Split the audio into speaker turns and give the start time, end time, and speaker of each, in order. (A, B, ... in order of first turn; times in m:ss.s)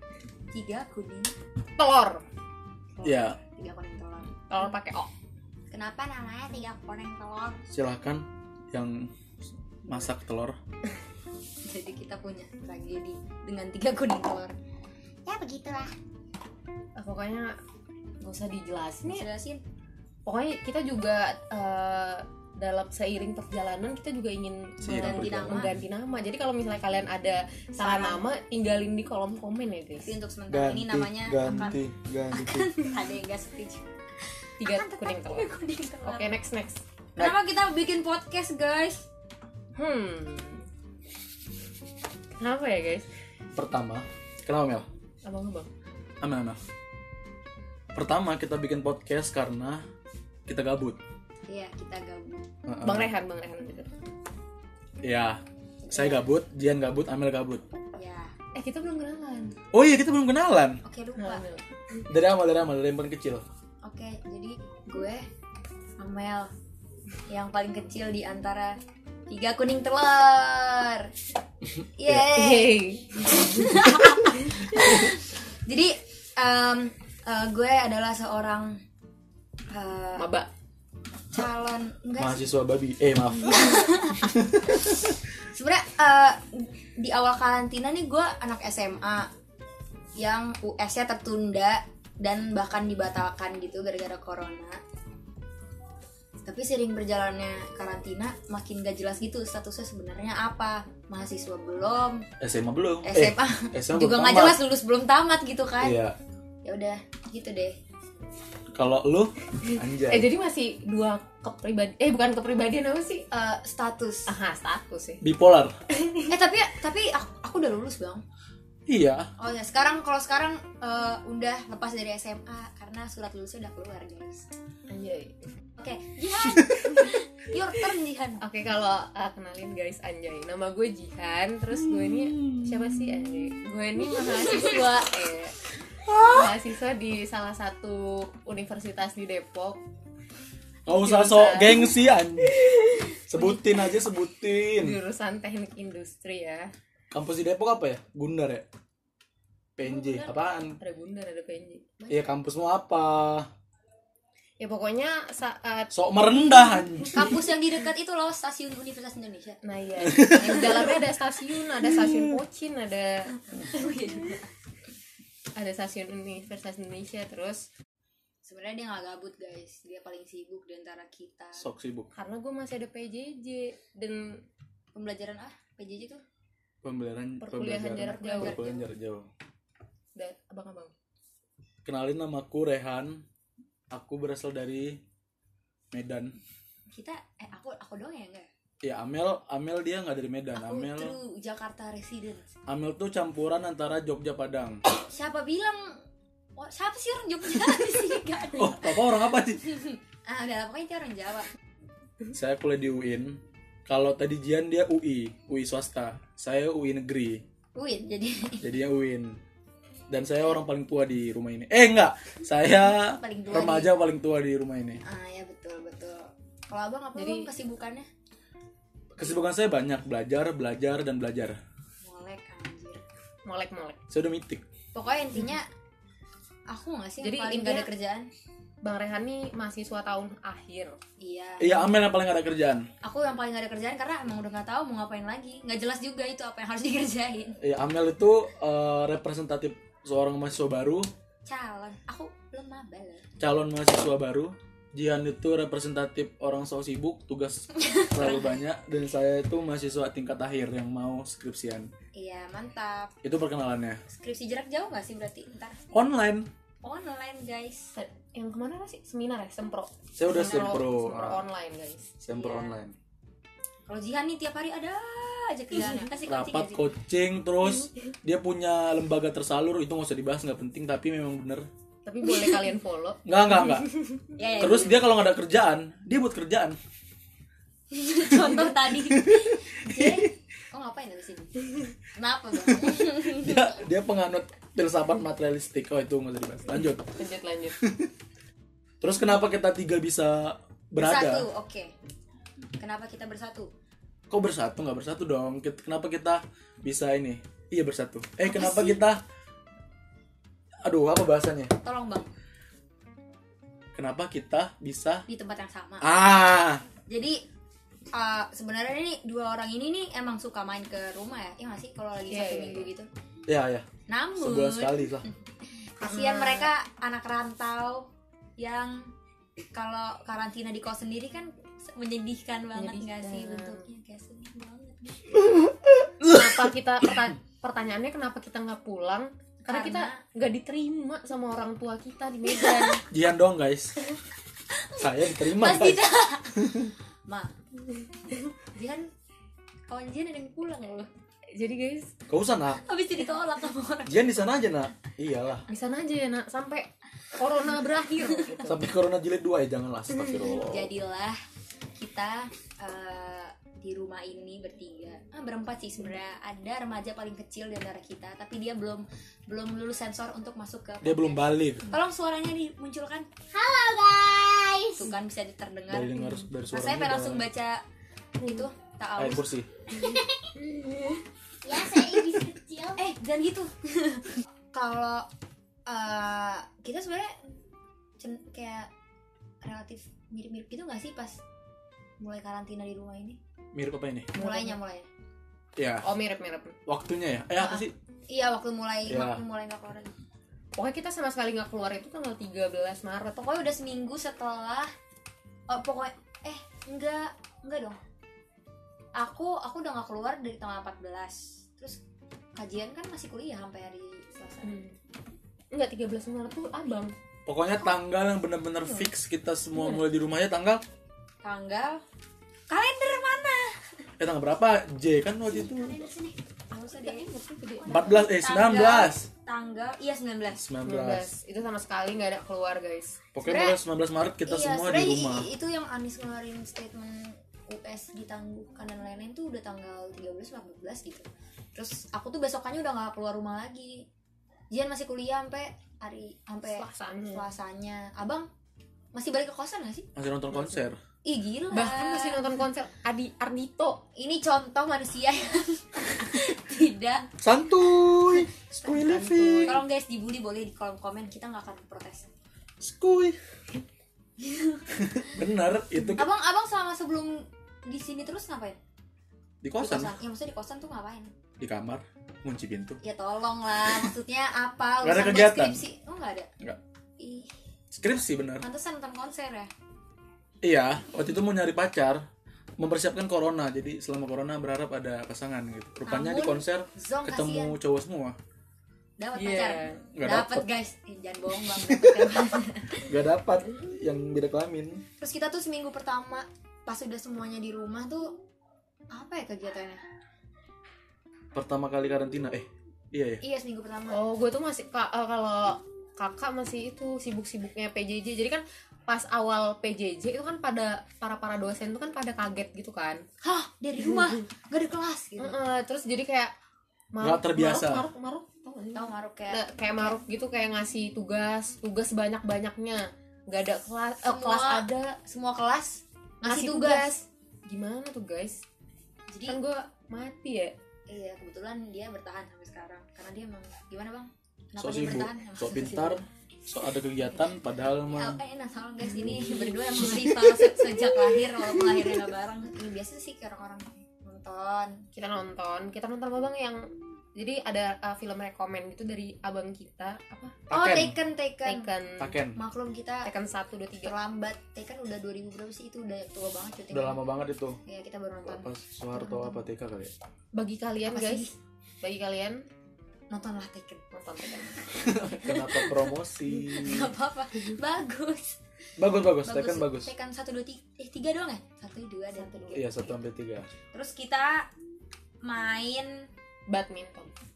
0:00.5-0:01.3 A
0:01.8-0:02.2 B
0:03.0-0:03.4 C
0:03.0-0:04.8 A
0:04.5-0:05.1 B
0:05.7-0:07.6 A
0:07.7-0:09.1 C
0:09.9-0:10.6 C
0:11.6-0:14.5 A
0:15.3-0:15.9 A
0:17.0-0:17.6 B
0:18.2-0:19.2 B
0:19.1-0:19.6 A
0:20.2-0:30.1 B
0:24.8-0:25.7 A
0:24.8-0:25.7 C
0:27.8-0:28.3 A
0:30.0-0:31.8 A
0:30.5-0:32.7 C
0:32.3-0:33.8 A
0:34.6-0:35.5 B
0:34.6-0:36.4 A
0:36.0-0:36.8 B
0:37.2-0:39.1 A
0:39.8-0:40.7 B
0:42.4-0:43.1 B
0:43.6-0:44.9 C
0:45.2-0:45.7 B
0:46.2-0:46.6 C
0:48.0-0:49.8 C
0:50.5-0:51.0 C
0:51.5-0:52.5 A
0:52.7-0:53.1 C
0:52.8-0:53.9 B
0:55.0-0:57.6 C
0:55.9-0:56.2 A
0:58.0-0:58.3 A
0:58.6-0:59.6 B
0:59.7-1:00.8 C
1:00.8-1:01.4 A
1:01.2-1:02.0 B
1:02.1-1:03.4 C
1:03.8-1:05.2 A
1:06.0-1:06.5 A
1:07.3-1:08.8 A
1:09.3-1:11.1 A
1:12.0-1:12.8 A
1:12.3-1:13.8 B
1:13.3-1:18.8 A
1:14.3-1:14.7 B
1:19.7-1:20.3 A
1:20.2-1:20.5 B
1:21.3-1:22.4 A
1:22.2-1:25.2 C
1:23.5-1:24.9 A
1:25.5-1:29.3 A
1:30.2-1:34.8 A
1:36.4-1:42.2 A
1:42.4-1:44.6 C
1:43.0-1:46.0 A
1:45.8-1:46.2 C
1:46.6-1:47.8 A
1:48.8-1:50.3 C
1:49.7-1:53.3 B
1:53.3-1:54.3 A
1:54.3-1:55.2 B
1:55.2-1:55.7 C
1:55.9-1:56.3 B
1:56.3-1:58.2 A
1:58.9-1:59.3 C
1:59.4-2:04.5 A
2:04.9-2:05.4 B
2:05.8-2:08.4 A
2:08.4-2:15.6 B
2:11.7-2:12.9 C
2:16.0-2:16.6 C
2:16.2-2:19.8 B
2:20.9-2:22.6 C
2:20.9-2:21.9 B
2:22.6-2:23.9 B
2:23.3-2:25.0 C
2:24.8-2:26.7 B
2:27.1-2:28.7 C
2:29.8-2:30.8 C
2:29.8-2:30.3 A
2:30.8-2:31.8 B
2:32.0-2:32.3 A
2:32.1-2:33.5 C
2:34.6-2:35.9 B
2:35.9-2:37.3 C
2:37.1-2:39.6 A
2:39.6-2:43.6 B
2:40.3-2:40.9 A
2:43.5-2:44.5 A
2:45.6-2:47.7 B
2:48.4-2:51.6 A
2:51.6-2:52.1 C
2:52.1-2:54.4 B
2:54.9-2:56.2 A
2:56.8-2:59.3 C
2:57.4-2:58.6 B
2:58.0-2:58.9 A
3:00.2-3:00.9 B
3:01.8-3:03.2 C
3:03.9-3:05.0 C
3:05.9-3:06.4 C
3:06.9-3:08.5 A
3:08.8-3:11.2 C
3:10.6-3:12.5 A
3:12.7-3:14.8 C
3:15.1-3:15.9 A
3:16.6-3:21.5 A
3:18.6-3:19.6 C
3:22.3-3:27.4 C
3:27.8-3:28.6 A
3:28.6-3:29.4 C
3:30.1-3:35.0 C
3:32.9-3:34.0 A
3:35.0-3:38.1 A
3:37.2-3:37.5 B
3:39.2-3:41.6 C
3:42.0-3:43.0 A
3:43.4-3:44.0 B
3:44.1-3:44.6 C
3:44.9-3:45.7 A
3:46.7-3:48.3 A
3:47.2-3:47.9 B
3:48.8-3:51.0 B
3:51.2-3:51.9 A
3:51.6-3:52.9 C
3:53.0-3:57.6 A
3:57.6-4:01.1 C
4:01.5-4:03.2 A
4:03.4-4:11.9 C
4:07.8-4:08.6 A
4:12.1-4:13.1 A
4:13.2-4:14.0 C
4:14.1-4:15.8 A
4:15.9-4:16.5 C
4:16.8-4:17.9 A
4:18.0-4:22.1 B
4:20.2-4:21.4 C
4:20.3-4:20.8 A
4:22.2-4:23.0 C
4:22.3-4:22.8 A
4:23.9-4:26.9 A
4:26.3-4:31.7 C
4:32.0-4:34.2 B
4:32.3-4:32.7 A
4:33.3-4:33.9 C
4:34.4-4:35.1 A
4:34.6-4:36.8 C
4:37.9-4:41.5 A
4:39.1-4:40.2 C
4:42.1-4:43.8 A
4:42.7-4:47.1 C
4:47.2-4:47.8 B
4:47.8-4:48.1 C
4:49.0-4:51.5 C
4:51.0-4:51.9 A
4:52.8-4:53.7 A
4:54.3-4:59.2 C
4:58.5-4:59.0 A
5:00.8-5:01.7 C
5:01.8-5:02.3 A
5:04.0-5:05.3 C
5:05.3-5:06.1 A
5:06.0-5:06.9 C
5:07.1-5:07.4 A
5:08.1-5:13.1 A
5:12.3-5:12.9 B
5:13.5-5:13.9 C
5:14.1-5:18.1 A
5:14.4-5:15.3 C
5:16.0-5:16.7 B
5:18.6-5:19.1 A
5:19.7-5:25.5 A
5:22.8-5:23.8 B
5:26.2-5:33.0 B
5:29.6-5:30.2 A
5:33.1-5:34.0 C
5:34.8-5:36.6 A
5:35.0-5:36.0 C
5:36.5-5:36.9 C
5:37.3-5:37.5 A
5:38.8-5:39.1 A
5:39.9-5:41.1 A
5:41.5-5:42.1 B
5:42.3-5:42.8 C
5:42.8-5:44.3 A
5:44.1-5:45.7 C
5:45.7-5:48.8 B
5:47.7-5:48.7 A
5:48.7-5:50.9 C
5:50.6-5:51.4 A
5:52.0-6:03.3 A
6:01.0-6:01.9 C
6:03.5-6:05.1 D
6:05.0-6:06.2 A
6:05.9-6:07.5 C
6:06.7-6:07.8 A
6:08.4-6:09.4 A
6:09.2-6:09.7 C
6:10.0-6:10.3 D
6:10.6-6:11.2 B
6:11.6-6:13.1 D
6:13.0-6:15.3 A
6:15.9-6:17.4 A
6:18.2-6:18.9 A
6:19.6-6:21.4 A
6:22.2-6:23.4 A
6:23.7-6:24.3 C
6:24.3-6:25.1 A
6:24.4-6:24.8 B
6:25.8-6:26.0 C
6:26.0-6:26.8 B
6:26.9-6:27.9 C
6:27.6-6:30.2 A
6:29.1-6:29.4 C
6:30.8-6:33.4 B
6:33.4-6:34.9 A
6:35.7-6:38.0 A
6:39.2-6:42.0 A
6:42.6-6:44.8 A
6:44.6-6:44.9 B
6:45.7-6:47.1 B
6:47.5-6:50.8 C
6:51.4-6:52.0 A
6:52.7-6:53.7 A
6:54.2-6:56.0 C
6:55.5-7:00.6 A
6:56.9-6:58.2 B
6:57.9-6:59.3 C
7:00.5-7:01.3 C
7:00.8-7:03.2 B
7:03.3-7:05.5 C
7:03.4-7:03.8 A
7:04.5-7:14.1 A
7:14.7-7:18.5 A
7:16.6-7:17.5 B
7:19.1-7:20.1 A
7:20.2-7:21.0 C
7:21.2-7:22.4 A
7:21.7-7:24.0 B
7:24.2-7:27.3 A
7:27.4-7:29.8 C
7:28.1-7:28.4 A
7:28.9-7:29.8 B
7:29.6-7:32.3 A
7:32.8-7:33.4 C
7:34.4-7:35.3 A
7:34.9-7:36.3 C
7:36.2-7:38.8 A
7:39.6-7:40.2 C
7:39.8-7:41.3 A
7:41.6-7:43.0 C
7:43.0-7:46.5 A
7:45.0-7:45.8 C
7:47.2-7:47.5 A
7:47.9-7:48.7 C
7:48.6-7:49.7 A
7:50.6-7:52.2 C
7:52.8-7:58.4 C
7:56.1-7:57.8 A
7:59.2-8:03.1 A
7:59.3-8:00.0 B
8:00.2-8:00.7 C
8:01.8-8:02.3 C
8:03.1-8:05.0 C
8:05.2-8:08.4 A
8:09.1-8:10.0 A
8:11.6-8:13.4 C
8:13.4-8:14.2 A
8:14.1-8:23.2 B
8:23.4-8:25.6 A
8:25.4-8:26.5 B
8:27.1-8:35.2 B
8:27.2-8:28.1 C
8:29.0-8:30.2 A
8:34.2-8:37.1 A
8:36.4-8:38.6 B
8:39.3-8:39.6 A
8:39.5-8:40.7 B
8:41.1-8:46.2 A
8:44.8-8:48.4 C
8:47.3-8:55.1 A
8:55.1-9:00.6 B
9:00.7-9:01.2 C
9:00.7-9:01.9 A
9:01.6-9:02.4 B
9:02.2-9:02.6 C
9:02.6-9:03.3 A
9:03.2-9:04.1 B
9:04.0-9:07.2 A
9:06.9-9:07.8 C
9:07.8-9:08.7 A
9:08.4-9:10.1 C
9:10.5-9:11.5 B
9:11.1-9:11.6 A
9:12.0-9:12.7 B
9:13.3-9:14.0 A
9:14.1-9:14.8 B
9:15.0-9:17.1 C
9:15.4-9:18.6 A
9:19.0-9:20.1 C
9:19.4-9:23.3 A
9:22.4-9:22.8 B
9:22.7-9:23.7 C
9:23.9-9:24.7 A
9:25.4-9:26.3 A
9:26.7-9:27.3 B